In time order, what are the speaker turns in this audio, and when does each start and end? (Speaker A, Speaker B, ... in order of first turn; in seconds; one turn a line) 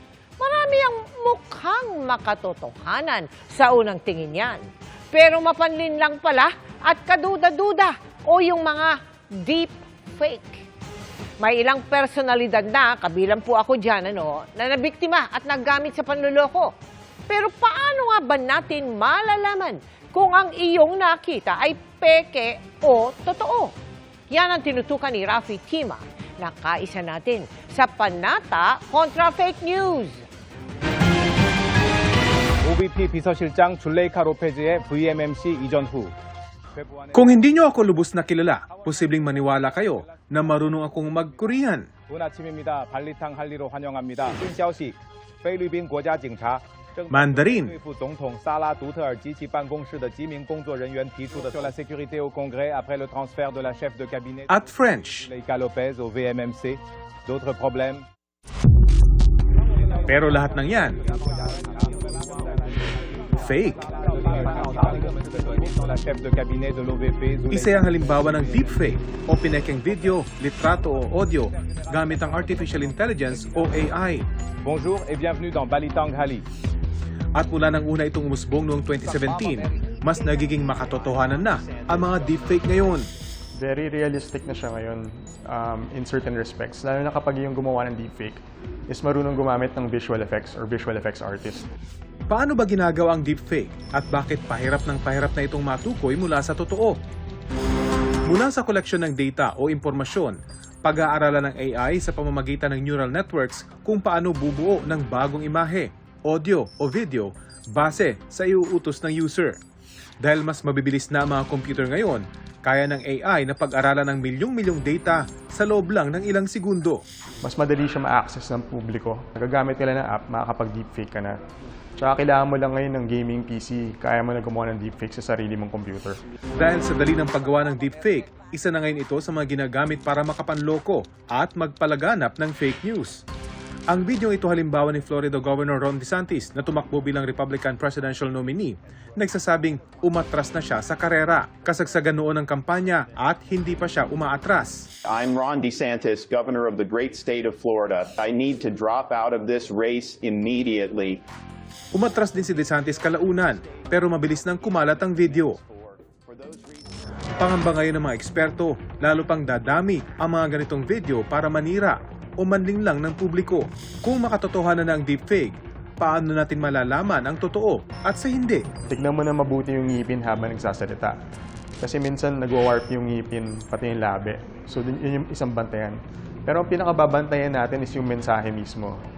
Speaker A: 0.4-10.6
Speaker A: 11.4-16.7
Speaker A: 17.3-23.7
Speaker A: 24.3-30.2
Speaker B: 32.7-36.1
Speaker B: 36.8-37.0
Speaker C: 37.1-41.9
Speaker B: 42.1-54.5
Speaker C: 47.1-47.8
Speaker C: 54.5-55.3
Speaker B: 55.3-58.0
Speaker C: 60.1-61.0
Speaker C: 63.4-63.8
Speaker B: 64.4-67.6
Speaker C: 67.5-74.2
Speaker B: 74.6-76.4
Speaker C: 77.3-83.1
Speaker D: 83.5-91.7
Speaker C: 92.3-97.0
Speaker C: 98.3-109.6
Speaker C: 110.2-117.0
Speaker D: 117.4-121.3
Speaker D: 122.0-126.2
Speaker C: 126.6-133.2
Speaker C: 133.9-144.9
Speaker E: 145.1-151.2
Speaker C: 151.9-155.6
Speaker E: 152.7-156.9
Speaker C: 157.4-168.7
Speaker D: 168.9-171.2
Speaker D: 171.8-178.9